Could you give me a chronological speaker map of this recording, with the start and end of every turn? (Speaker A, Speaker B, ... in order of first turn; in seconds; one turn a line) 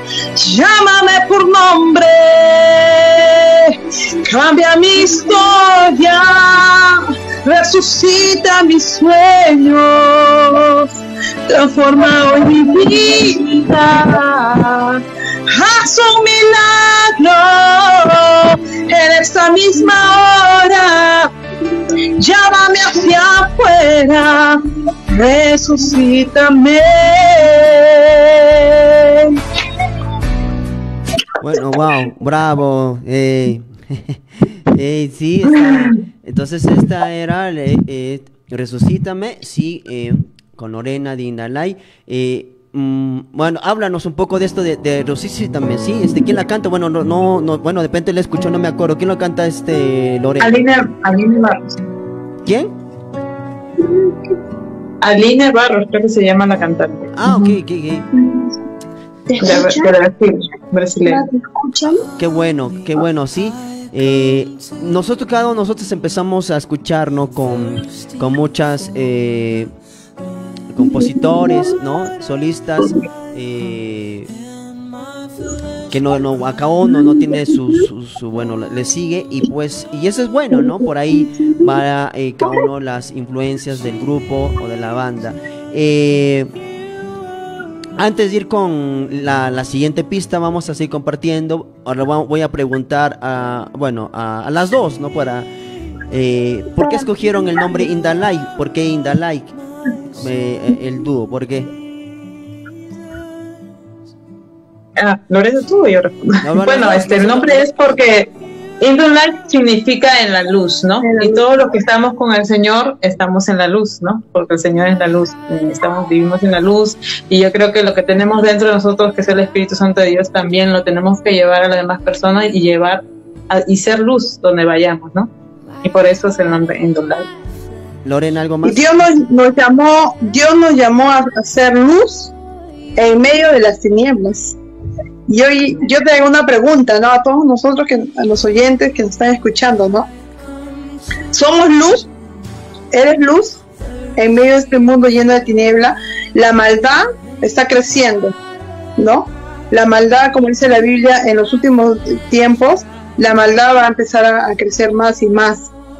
Speaker A: 0.3-10.9
Speaker A: 11.5-21.3
Speaker A: 22.2-29.4
Speaker B: 31.4-50.7
Speaker C: 50.4-51.8
Speaker B: 52.4-52.7
Speaker C: 55.0-57.1
Speaker B: 57.1-58.1
Speaker A: 59.3-59.9
Speaker C: 59.4-61.2
Speaker A: 61.0-62.0
Speaker B: 62.2-69.7
Speaker B: 70.7-74.3
Speaker B: 75.9-86.5
Speaker B: 88.0-95.5
Speaker B: 96.1-99.6
Speaker B: 100.1-101.7
Speaker C: 105.0-125.3
Speaker B: 106.4-107.7
Speaker A: 111.0-111.4
Speaker C: 125.8-127.3
Speaker B: 128.0-129.2
Speaker A: 128.6-132.3
Speaker A: 132.9-134.6
Speaker A: 135.3-140.1
Speaker A: 141.3-142.1
Speaker A: 142.9-143.6
Speaker A: 144.2-148.3
Speaker A: 149.0-155.7